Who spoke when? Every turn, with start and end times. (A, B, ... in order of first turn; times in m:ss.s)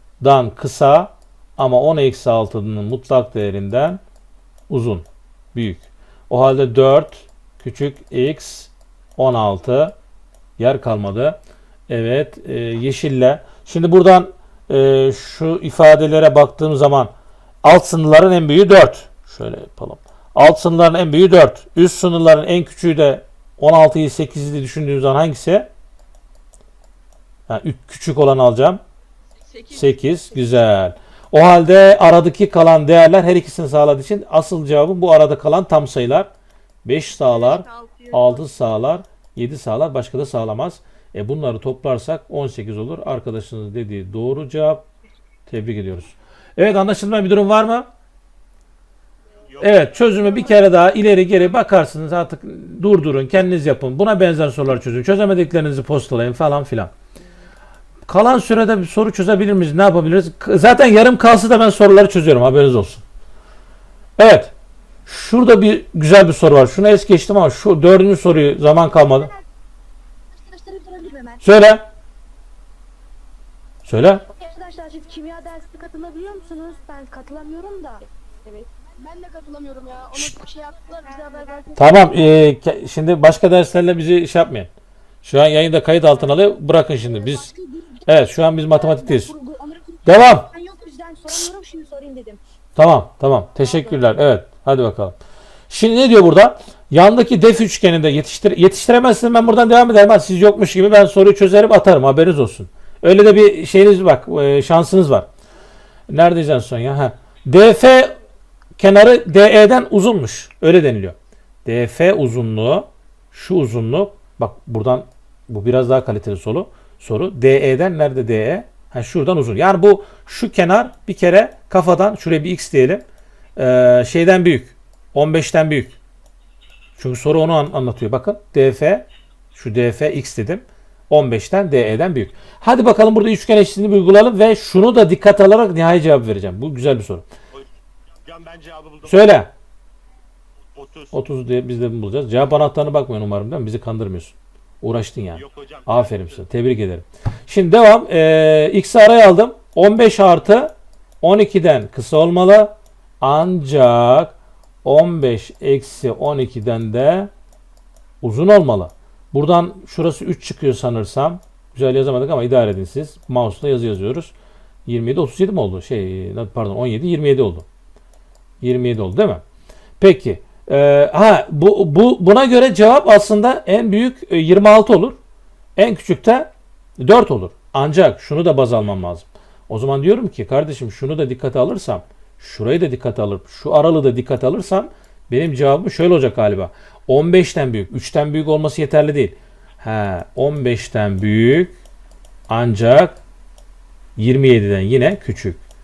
0:00.2-0:04.0 A
0:04.7-0:09.9 A
0:10.6-0:11.4 A
0:11.9-0:17.1 A
0:17.6-0:25.7 A
0:27.5-0:28.8 A
0:29.5-0:29.8 B
0:29.7-0:36.3 A
0:36.8-0:44.9 A
0:37.2-0:38.4 B
0:45.5-0:47.9 A
0:49.4-0:50.3 C
0:49.6-0:56.9 A
0:58.1-1:03.0 A
1:04.2-1:04.5 A
1:05.0-1:09.3 A
1:09.2-1:09.4 B
1:10.3-1:11.4 B
1:11.4-1:11.8 A
1:13.8-1:14.2 A
1:14.3-1:22.1 B
1:21.8-1:24.7 A
1:25.2-1:27.5 A
1:27.1-1:28.0 B
1:28.1-1:29.3 A
1:28.7-1:32.4 B
1:30.0-1:30.5 A
1:32.8-1:35.2 A
1:33.6-1:33.9 B
1:35.7-1:45.3 A
1:46.1-1:48.2 A
1:48.8-2:03.0 A
2:03.6-2:06.0 A
2:07.0-2:17.2 A
2:18.2-2:19.3 C
2:19.0-2:19.5 A
2:20.7-2:21.2 C
2:21.1-2:37.3 A
2:25.3-2:26.4 C
2:38.2-2:44.3 A
2:44.8-2:47.6 A
2:48.6-2:49.4 A
2:50.0-2:55.2 A
2:55.8-3:11.7 A
3:12.5-3:13.2 A
3:14.2-3:15.6 A